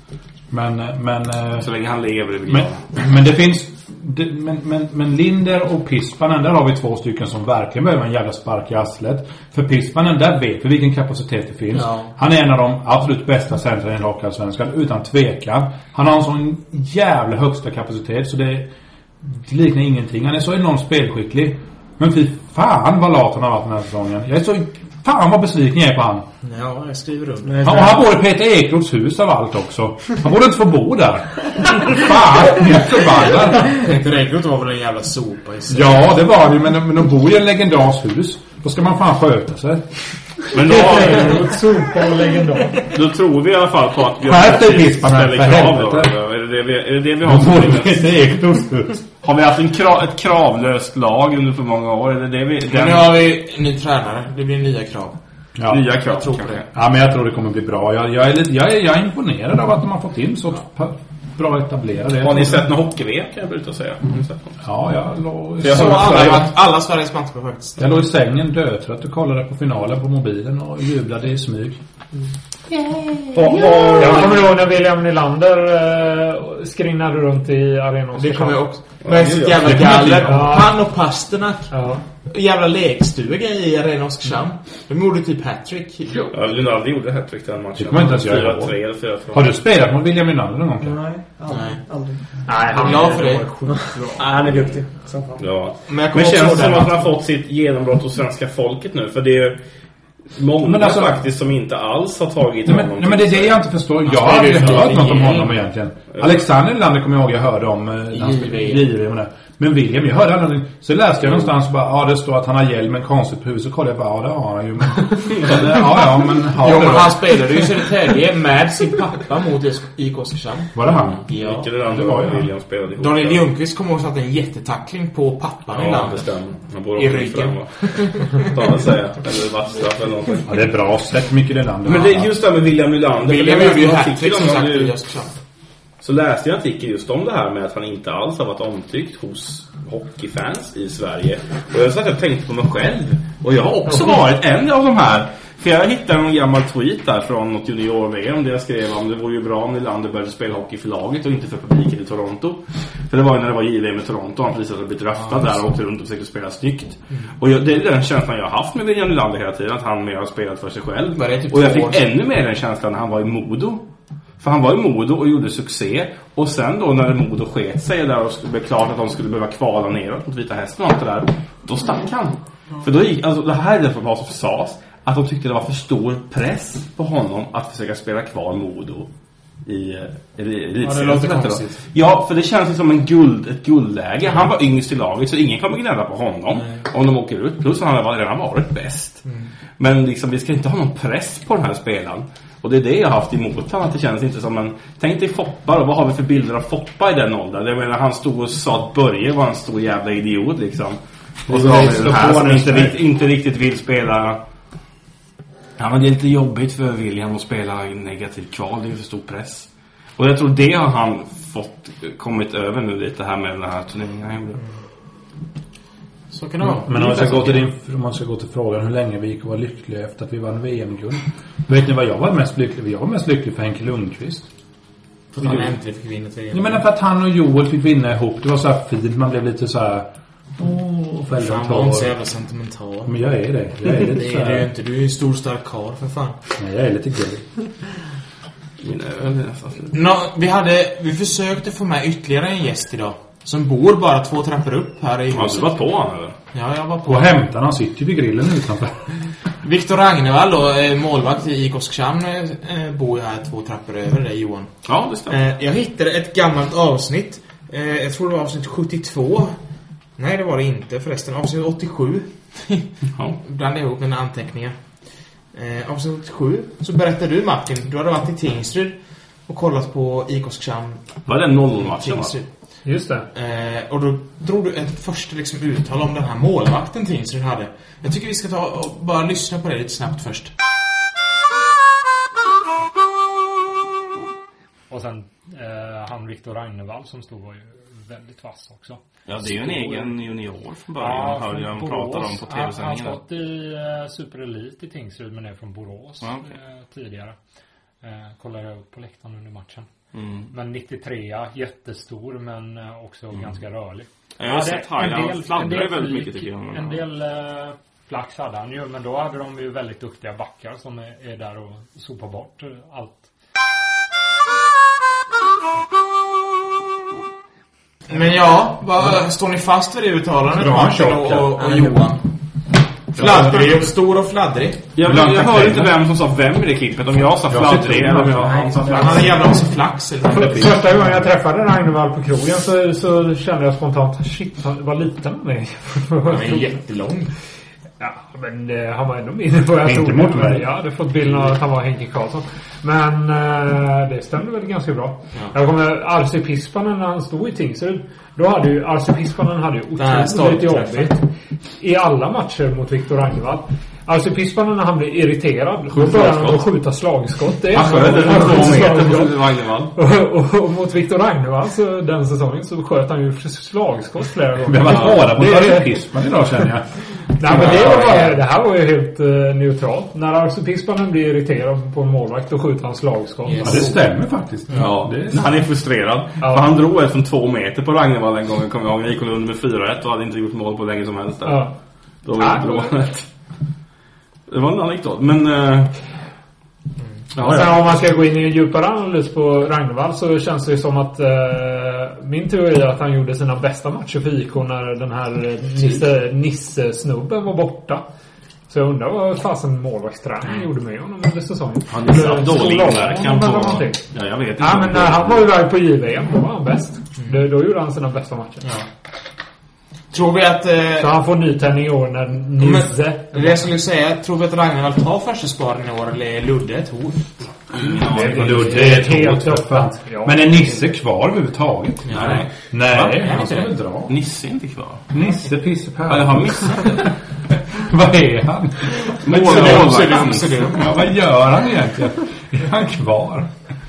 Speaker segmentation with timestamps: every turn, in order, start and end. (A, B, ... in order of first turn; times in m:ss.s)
0:00.5-0:01.7 A
0:01.6-0:02.8 B
0:02.5-0:18.7 A
0:19.2-0:26.3 A
0:26.4-0:27.9 C
0:27.4-0:28.0 D
0:27.6-0:33.8 A
0:33.7-0:36.0 C
0:35.7-0:39.8 A
0:40.5-0:41.5 B
0:40.6-0:42.8 E
0:42.9-0:48.1 B
0:44.2-0:46.1 A
0:47.2-0:49.0 A
0:49.2-0:53.2 B
0:52.7-0:55.2 C
0:55.6-0:55.8 A
0:55.7-0:56.6 B
0:56.0-0:56.6 C
0:56.7-1:02.7 A
1:02.2-1:04.6 B
1:04.6-1:06.5 A
1:05.6-1:06.5 B
1:05.6-1:07.8 C
1:07.8-1:11.8 A
1:12.8-1:14.0 C
1:13.3-1:14.4 B
1:14.0-1:18.6 E
1:18.1-1:21.7 C
1:19.0-1:20.1 B
1:19.6-1:20.6 A
1:20.3-1:20.7 E
1:21.7-1:22.0 E
1:22.2-1:26.3 C
1:26.3-1:29.5 B
1:27.8-1:28.8 A
1:29.3-1:31.0 A
1:30.8-1:32.2 D
1:31.5-1:31.8 C
1:32.4-1:34.2 E
1:32.7-1:33.5 C
1:33.8-1:35.4 D
1:35.4-1:39.6 B
1:35.8-1:37.1 C
1:40.3-1:43.5 B
1:40.6-1:41.2 A
1:42.6-1:57.6 A
1:44.0-1:45.6 C
1:48.1-1:48.8 C
1:56.6-2:00.8 C
2:00.7-2:01.3 A
2:00.9-2:03.4 B
2:01.3-2:01.8 C
2:01.8-2:02.5 A
2:03.0-2:06.3 C
2:05.7-2:10.5 B
2:07.0-2:08.8 C
2:10.5-2:12.3 A
2:11.8-2:14.9 B
2:13.2-2:15.3 C
2:16.0-2:43.8 B
2:41.1-2:42.1 C
2:44.4-2:59.1 B
2:59.6-3:09.2 B
3:00.8-3:01.8 C
3:06.5-3:06.8 C
3:09.2-3:09.5 C
3:09.8-3:24.4 B
3:21.5-3:23.0 A
3:25.8-3:34.6 B
3:36.3-3:37.6 C
3:36.6-3:44.5 A
3:45.3-3:46.8 C
3:45.4-3:45.7 A
3:46.5-3:52.1 A
3:51.4-3:53.2 C
3:53.0-3:54.7 A
3:53.9-3:56.4 C
3:56.6-3:57.5 A
3:58.8-3:59.9 B
3:59.9-4:05.8 C
4:05.3-4:06.4 B
4:06.5-4:07.3 C
4:07.1-4:09.0 A
4:09.6-4:14.7 C
4:14.8-4:15.4 B
4:15.3-4:19.6 C
4:20.2-4:22.9 C
4:23.4-4:24.8 C
4:25.5-4:31.1 C
4:31.2-4:32.3 B
4:31.8-4:32.4 C
4:32.8-4:33.2 E
4:33.3-4:40.5 C
4:44.9-4:50.2 E
4:49.3-4:53.2 B
4:51.0-4:57.4 E
4:58.0-4:59.9 E
5:00.1-5:00.5 B
5:00.5-5:13.2 E
5:04.4-5:07.0 B
5:18.1-5:22.2 C
5:20.5-5:21.5 A
5:23.1-5:24.9 C
5:23.2-5:23.7 A
5:24.9-5:29.4 B
5:25.0-5:25.9 A
5:27.5-5:28.7 A
5:28.8-5:30.8 C
5:30.3-5:31.2 A
5:30.3-5:36.8 E
5:36.2-5:37.3 C
5:38.0-5:51.2 E
5:39.8-5:40.6 A
5:50.0-5:51.2 C
5:51.8-5:59.4 E
5:56.0-5:56.6 B
5:57.7-5:59.9 B
5:59.9-6:05.9 E
6:04.7-6:06.9 A
6:07.4-6:13.9 E
6:07.4-6:08.3 C
6:13.4-6:13.9 C
6:13.6-6:15.4 A
6:14.7-6:21.7 B
6:21.4-6:21.7 E
6:22.2-6:23.3 B
6:22.4-6:22.9 E
6:24.5-6:25.9 B
6:27.3-6:27.8 B
6:27.4-6:38.0 E
6:38.7-6:44.0 E
6:41.9-6:45.5 B
6:44.6-6:48.7 E
6:50.1-6:51.1 C
6:51.0-6:53.7 E
6:52.6-6:58.6 C
6:57.7-6:58.8 B
6:58.1-7:00.5 E
6:58.2-7:04.1 A
7:02.0-7:03.8 C
7:02.1-7:02.5 B
7:04.1-7:05.0 B
7:05.1-7:07.1 A
7:06.1-7:07.1 B
7:07.8-7:10.1 A
7:09.2-7:11.0 B
7:09.2-7:10.9 C
7:10.7-7:13.5 A